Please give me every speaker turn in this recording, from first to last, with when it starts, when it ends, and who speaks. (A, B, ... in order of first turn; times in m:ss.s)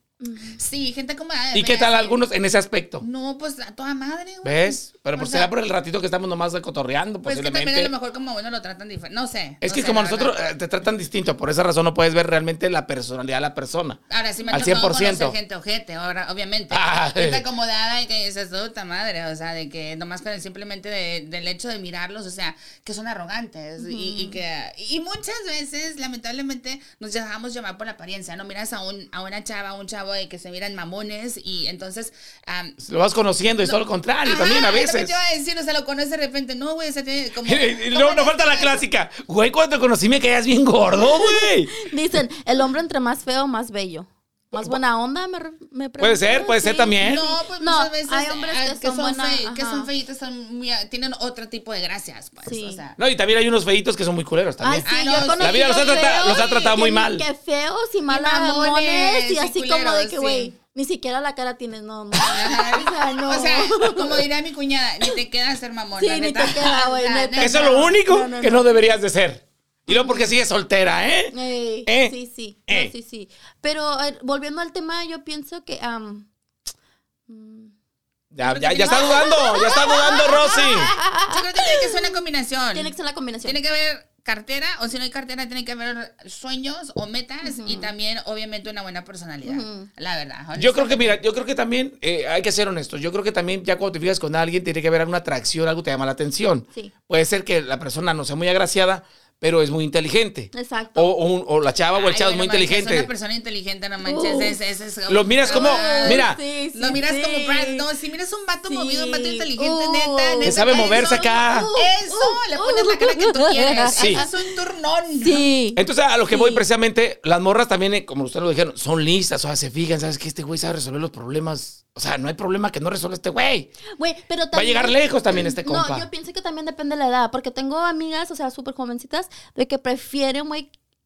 0:00.2-0:00.6 A
0:00.6-0:02.2 B
0:01.5-0:03.0 C
0:03.0-0:05.5 B
0:04.4-0:07.9 C
0:07.2-0:10.4 B
0:09.6-0:15.4 C
0:14.1-0:32.8 B
0:16.7-0:17.4 C
0:23.8-0:24.4 A
0:32.8-0:35.2 C
0:33.6-0:38.8 B
0:37.4-0:41.7 C
0:41.0-0:49.9 A
0:46.0-0:47.2 C
0:47.0-0:53.0 B
0:52.4-0:52.8 A
0:53.0-0:57.3 C
0:54.6-1:04.3 A
0:54.8-0:56.4 B
0:58.1-1:00.5 B
1:02.1-1:07.9 B
1:06.0-1:08.9 A
1:07.4-1:12.2 C
1:09.9-1:10.3 A
1:11.3-1:16.3 A
1:12.7-1:12.9 C
1:17.3-1:17.7 A
1:18.3-1:20.9 C
1:18.4-1:31.2 B
1:18.8-1:21.9 A
1:22.7-1:23.6 A
1:27.4-1:27.9 A
1:29.4-1:29.9 A
1:30.6-1:43.1 C
1:40.5-1:41.2 A
1:42.0-1:55.4 B
1:44.0-1:44.6 A
1:45.1-1:46.4 C
1:45.5-1:47.9 A
1:48.6-1:54.3 A
1:50.4-1:51.7 C
1:54.0-1:54.2 C
1:55.2-1:56.6 A
1:55.8-2:03.7 C
2:03.9-2:10.7 A
2:04.5-2:06.1 C